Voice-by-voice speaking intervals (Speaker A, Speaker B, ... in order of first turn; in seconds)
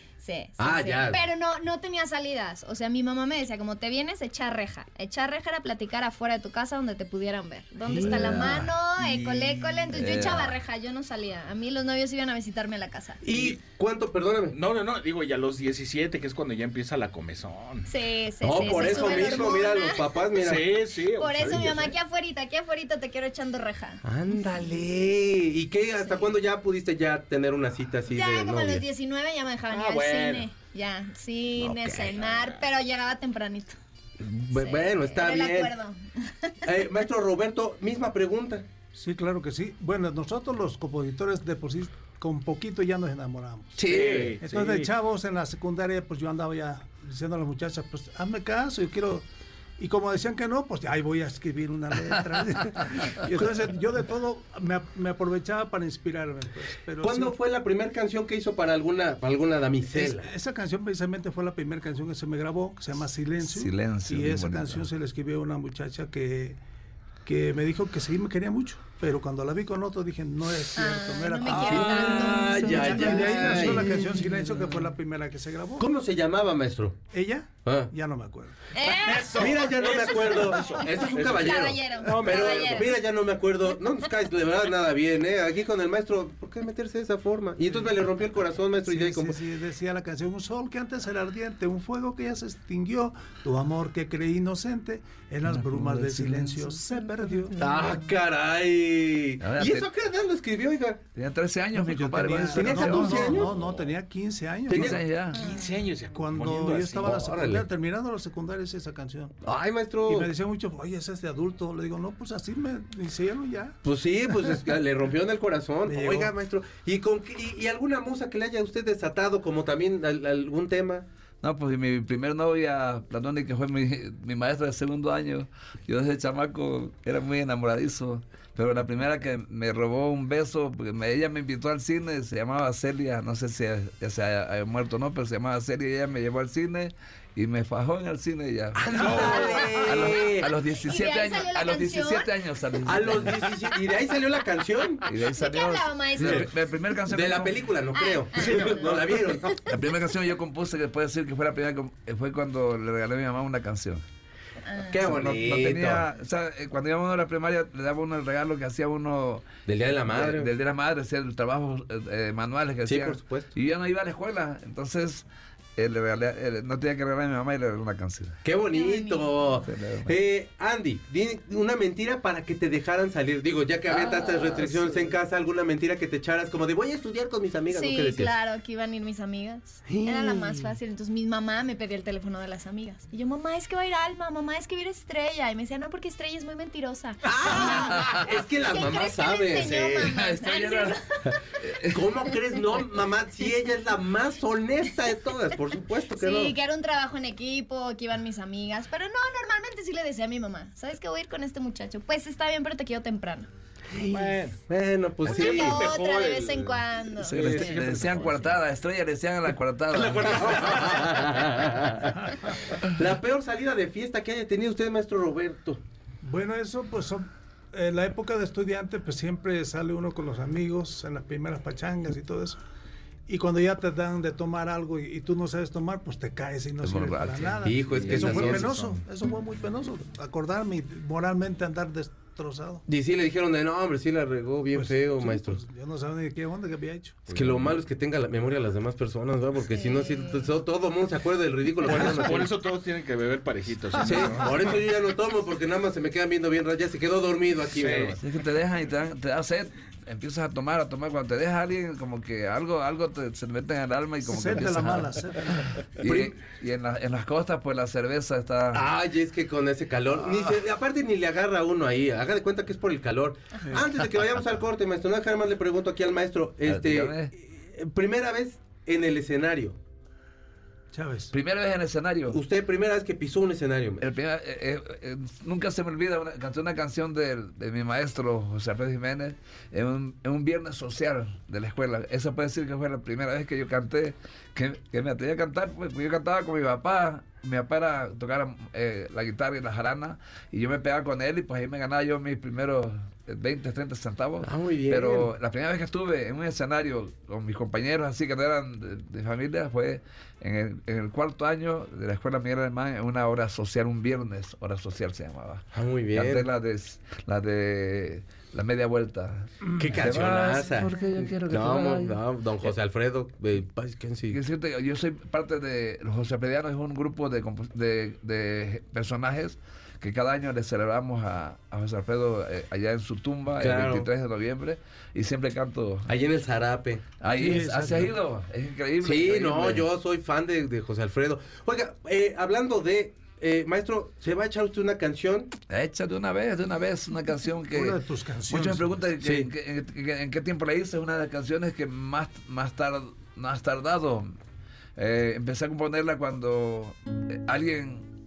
Speaker A: 0.2-13.2, 17.9-20.4, 21.1-24.0, 26.0-26.3, 28.1-33.8, 34.3-36.6, 70.7-73.0, 78.7-82.9, 139.0-140.1, 140.8-142.3, 145.2-146.4, 147.9-149.8, 154.7-154.9, 168.7-169.5, 177.7-191.4, 196.2-203.5, 205.2-208.1, 239.7-240.4
Speaker B: 0.6-1.2, 7.9-8.7, 13.2-14.6, 18.4-20.8, 24.0-28.8, 34.2-35.7, 36.6-38.6, 57.0-60.3, 71.5-74.2, 75.8-77.0, 77.6-77.9, 79.3-89.4, 97.5-101.0, 102.5-103.5, 104.7-105.0, 107.0-107.6, 109.4-110.3, 113.8-121.0, 138.8-140.5, 142.8-145.1, 146.2-146.4, 147.1-149.5, 154.9-156.0, 159.7-160.5, 162.8-163.5, 168.4-178.3, 179.9-180.7, 187.2-190.1, 191.8-196.5, 203.9-206.0, 210.6-212.1, 212.8-215.8, 227.6-228.9, 232.9-235.6, 237.3-242.5, 244.0-248.2, 256.0-256.4, 258.7-269.8, 272.3-274.0, 294.4-295.3, 305.7-306.4, 309.7-314.4, 323.6-324.1, 326.1-327.0, 329.0-335.5, 339.2-339.5
Speaker C: 7.9-8.7, 9.9-10.6, 43.8-44.4, 53.0-53.3, 63.4-64.8, 71.5-73.9, 95.4-96.8, 99.4-99.9, 101.1-103.5, 104.7-105.5, 121.4-143.5, 145.0-147.6, 149.6-154.0, 155.0-159.5, 160.1-165.2, 165.8-168.4, 169.6-170.2, 173.9-175.1, 187.9-188.3, 189.8-191.0, 191.6-192.0, 207.2-210.8, 226.8-228.9, 248.2-258.9, 266.6-267.3, 271.3-272.4, 274.0-312.7, 314.3-326.1, 327.2-329.9, 335.7-344.3, 344.9-348.0
Speaker D: 13.3-13.6, 14.5-17.9, 18.6-19.2, 20.3-21.9, 29.7-30.5, 32.1-32.5, 43.9-44.9, 78.9-82.9, 105.3-107.2, 148.6-149.2, 204.0-204.6, 205.2-208.5, 209.9-212.0, 237.3-237.7, 241.8-244.8, 247.8-248.2
Speaker E: 38.9-49.2, 49.8-57.3, 59.9-66.6, 67.2-75.9, 77.1-78.6, 88.8-97.7, 101.7-105.0, 106.1-109.3, 110.0-113.8, 115.9-116.3, 216.2-222.6, 223.3-232.8, 234.7-237.3, 254.2-255.8, 270.9-271.3, 327.3-328.1, 337.7-339.0